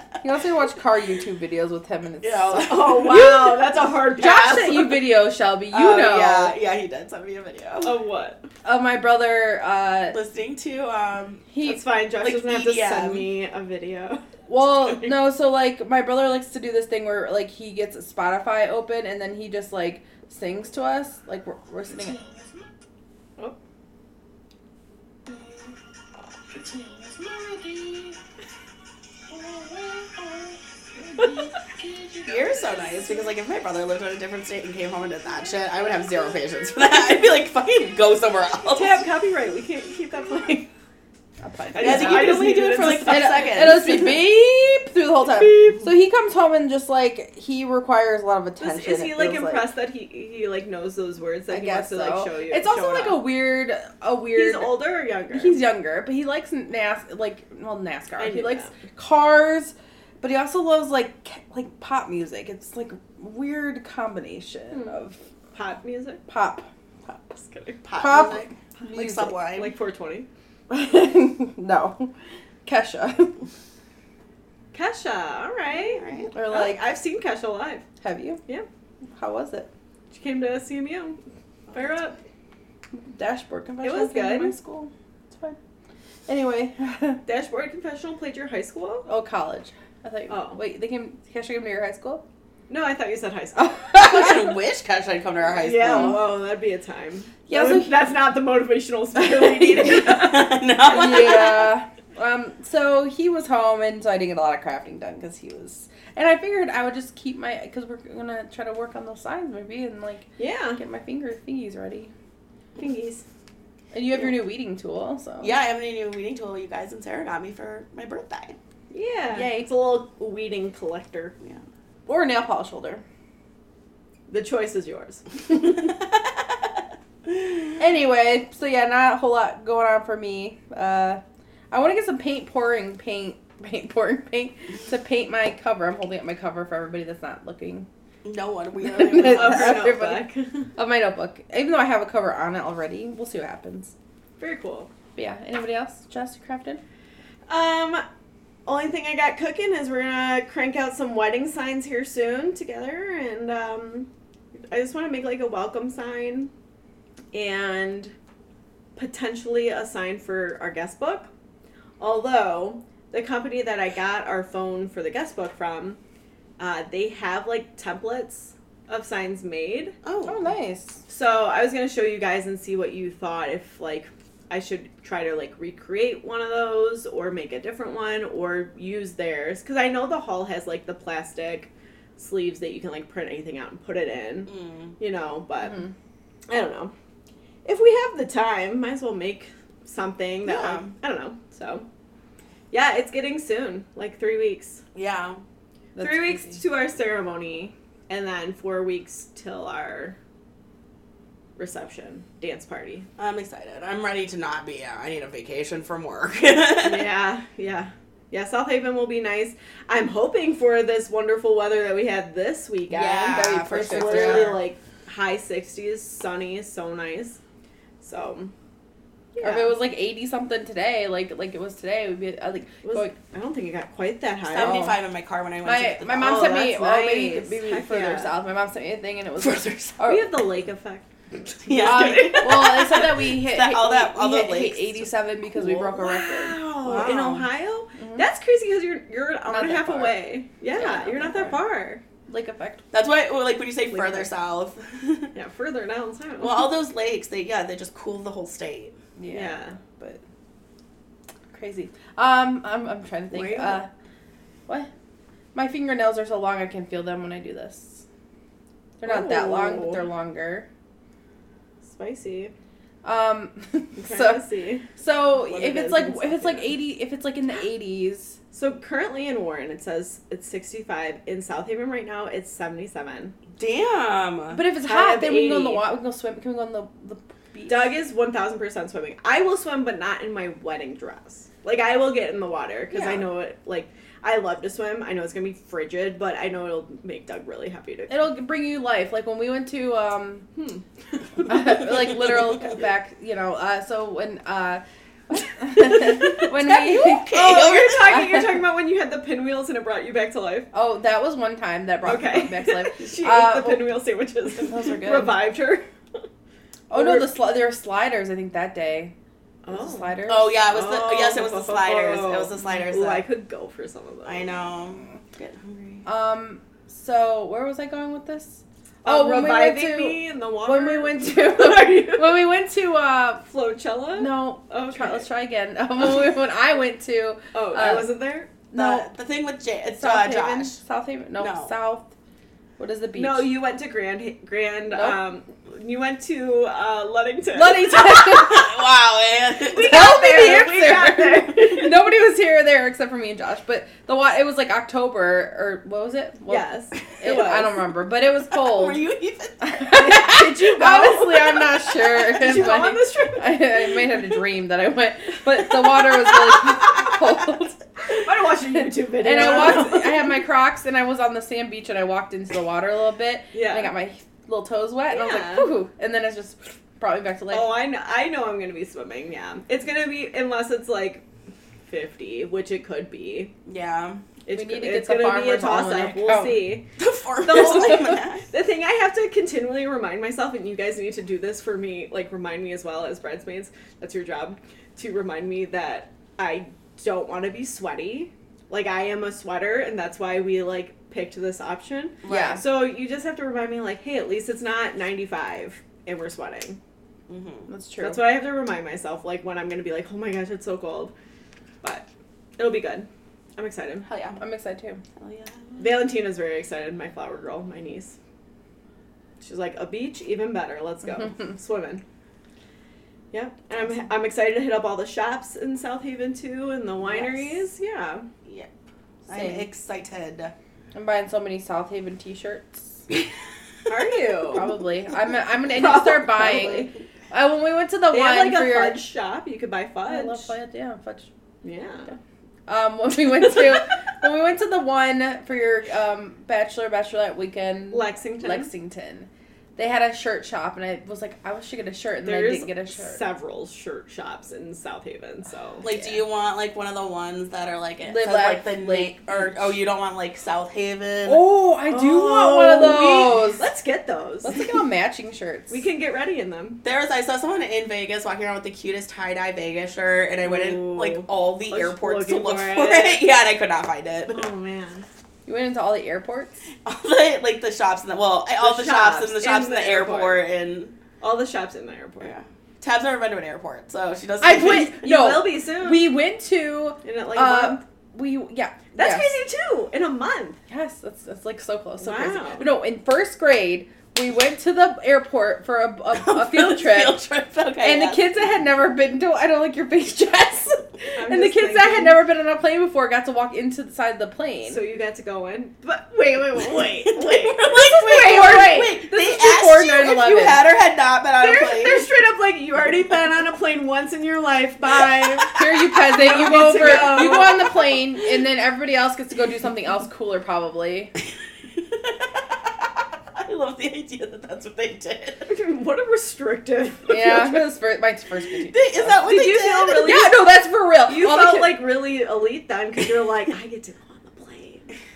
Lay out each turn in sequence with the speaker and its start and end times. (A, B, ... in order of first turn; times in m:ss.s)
0:00.2-0:03.6 A
0:02.2-0:03.3 B
0:02.7-0:05.0 C
0:04.2-0:06.6 A
0:05.7-0:08.0 B
0:07.8-0:08.4 C
0:08.6-0:10.2 A
0:10.1-0:11.4 B
0:11.5-0:11.8 A
0:11.6-0:14.2 C
0:12.2-0:13.3 B
0:14.5-0:22.2 A
0:14.8-0:15.1 C
0:27.3-0:27.6 A
0:30.0-0:30.2 A
0:31.1-0:31.6 A
0:32.2-0:39.0 B
0:38.7-0:40.7 C
0:41.4-0:42.4 A
0:41.7-0:43.8 C
0:41.8-0:44.2 B
0:43.0-0:49.7 A
0:48.6-0:53.2 C
0:51.5-0:54.7 A
0:54.4-0:55.6 C
0:55.3-1:05.2 A
0:58.2-0:58.7 C
1:04.7-1:05.0 C
1:05.5-1:06.2 C
1:06.3-1:06.7 A
1:07.2-1:08.4 C
1:07.9-1:09.7 B
1:08.0-1:09.3 A
1:09.4-1:10.3 C
1:10.7-1:12.1 A
1:12.6-1:13.4 A
1:14.7-1:17.8 C
1:15.7-1:16.3 B
1:16.3-1:16.8 A
1:18.0-1:18.4 A
1:19.2-1:19.7 A
1:20.1-1:21.2 C
1:21.7-1:22.2 C
1:22.9-1:25.6 A
1:23.8-1:24.6 C
1:26.3-1:27.2 A
1:27.3-1:29.1 C
1:29.1-1:32.2 A
1:30.3-1:30.6 C
1:32.7-1:34.1 C
1:33.6-1:34.6 A
1:34.0-1:36.2 B
1:35.6-1:41.6 C
1:35.8-1:36.2 A
1:37.5-1:38.0 A
1:39.7-1:41.7 B
1:40.9-1:52.1 A
1:50.4-1:50.8 C
1:52.8-1:53.2 C
1:53.9-1:55.6 A
1:55.4-1:58.6 B
1:58.9-2:01.3 C
1:59.3-1:59.7 A
2:02.1-2:03.0 A
2:04.3-2:05.7 C
2:07.8-2:17.9 A
2:18.2-2:19.9 B
2:18.8-2:23.9 A
2:19.1-2:20.7 C
2:24.4-2:24.9 C
2:25.2-2:26.8 A
2:27.5-2:28.0 C
2:28.7-2:34.1 C
2:34.7-2:36.5 C
2:37.3-2:38.1 C
2:39.0-2:41.3 C
2:42.0-2:46.0 C
2:46.6-2:50.0 C
2:50.0-2:50.5 B
2:50.3-2:51.0 A
2:51.1-3:05.8 C
3:04.5-3:04.9 B
3:05.6-3:05.9 A
3:06.5-3:06.9 C
3:07.6-3:11.9 C
3:10.4-3:10.9 B
3:12.7-3:14.8 C
3:15.0-3:15.4 B
3:16.0-3:16.6 A
3:16.0-3:20.2 C
3:21.6-3:23.1 C
3:23.2-3:27.1 B
3:26.8-3:37.4 C
3:32.9-3:34.6 B
3:33.3-3:34.6 A
3:38.0-3:38.5 C
3:39.4-3:39.8 C
3:39.4-3:43.1 A
3:42.8-3:44.8 C
3:44.5-3:46.6 B
3:44.6-3:45.0 A
3:45.6-3:50.3 A
3:46.2-3:48.3 C
3:49.4-3:50.0 B
3:50.1-3:53.0 C
3:51.6-3:55.1 B
3:51.8-3:56.6 A
3:55.6-4:02.0 C
3:56.8-3:57.5 B
3:58.0-3:58.2 A
3:59.5-4:00.2 A
4:00.7-4:01.6 A
4:02.3-4:02.8 A
4:02.9-4:05.3 B
4:03.9-4:04.3 C
4:05.4-4:06.7 C
4:06.4-4:09.0 B
4:09.2-4:10.2 A
4:09.3-4:09.8 C
4:11.5-4:13.9 A
4:13.3-4:13.8 C
4:15.6-4:18.0 A
4:19.0-4:20.7 A
4:19.0-4:20.0 C
4:21.8-4:22.5 C
4:23.0-4:24.4 A
4:24.0-4:24.9 C
4:25.0-4:28.4 A
4:25.4-4:26.7 C
4:28.5-4:33.4 C
4:33.6-4:34.6 B
4:34.5-4:37.9 A
4:34.8-4:35.8 C
4:37.7-4:48.2 C
4:42.9-4:43.3 A
4:48.1-4:50.5 A
4:50.6-4:50.8 C
4:51.4-4:57.3 A
4:56.5-4:58.2 B
4:57.3-5:00.7 C
4:58.1-4:58.5 A
5:00.7-5:03.9 A
5:02.0-5:05.8 C
5:04.5-5:05.4 A
5:06.9-5:09.1 A
5:06.9-5:07.3 C
5:09.6-5:10.1 C
5:09.7-5:10.6 A
5:10.3-5:13.2 B
5:10.7-5:14.5 C
5:14.2-5:16.0 B
5:16.1-5:23.5 A
5:19.0-5:22.4 C
5:23.5-5:25.3 C
5:24.2-5:28.1 A
5:27.5-5:28.5 C
5:28.7-5:29.1 A
5:28.7-5:30.8 B
5:30.0-5:32.1 A
5:31.4-5:31.7 B
5:32.8-5:33.5 A
5:33.2-5:38.7 C
5:34.9-5:35.2 A
5:37.5-5:38.7 A
5:38.5-5:39.9 B
5:39.6-5:42.0 C
5:39.8-5:46.7 A
5:46.5-5:47.7 C
5:47.2-5:49.0 A
5:48.5-5:50.0 B
5:49.6-5:57.8 A
5:50.0-5:51.7 C
5:52.2-5:53.7 C
5:56.7-5:57.2 B
5:58.1-6:00.3 C
5:59.2-6:07.7 A
6:03.5-6:03.9 C
6:05.1-6:05.7 C
6:07.5-6:11.2 C
6:11.9-6:13.5 C
6:13.7-6:14.2 B
6:14.5-6:16.8 C
6:14.5-6:16.8 A
6:17.0-6:18.5 B
6:17.4-6:36.8 C
6:32.2-6:32.6 B
6:32.3-6:32.6 A
6:37.3-6:37.7 B
6:37.7-6:38.2 A
6:38.0-6:41.1 C
6:42.6-6:44.1 C
6:44.0-6:44.4 B
6:44.4-6:45.0 A
6:45.2-6:46.0 B
6:45.8-6:48.2 C
6:49.4-6:52.0 C
6:53.3-6:58.3 C
6:57.1-6:57.5 A
6:59.3-7:00.5 B
6:59.3-6:59.7 A
7:00.9-7:03.0 A
7:03.9-7:04.7 C
7:04.5-7:09.0 A
7:05.8-7:06.9 C
7:08.1-7:10.5 C
7:10.1-7:11.3 A
7:11.6-7:12.1 C
7:12.1-7:23.2 A
7:17.9-7:18.7 C
7:22.2-7:25.9 C
7:25.8-7:31.4 B
7:28.0-7:29.8 A
7:31.3-7:33.7 A
7:31.9-7:34.7 C
7:34.4-7:35.8 A
7:35.7-7:36.8 C
7:36.8-7:44.5 B
7:40.4-7:43.2 C
7:44.3-7:45.1 C
7:45.5-7:46.6 A
7:46.8-7:51.0 B
7:48.6-7:50.4 C
7:51.2-7:52.3 C
7:52.2-7:55.0 B
7:54.4-7:59.3 A
7:54.9-7:56.1 C
7:57.0-7:57.8 C
7:59.0-8:00.6 C
8:00.7-8:07.2 A
8:02.0-8:02.7 C
8:06.1-8:08.3 B
8:07.8-8:14.8 A
8:11.2-8:12.2 C
8:14.7-8:19.4 C
8:16.8-8:22.1 B
8:19.1-8:20.6 A
8:21.4-8:27.8 C
8:25.6-8:31.1 A
8:26.8-8:27.5 B
8:31.7-8:35.5 B
8:35.5-8:37.6 C
8:37.1-8:39.2 A
8:38.7-8:40.2 B
8:39.2-8:40.4 C
8:40.0-8:41.8 A
8:41.1-8:44.9 C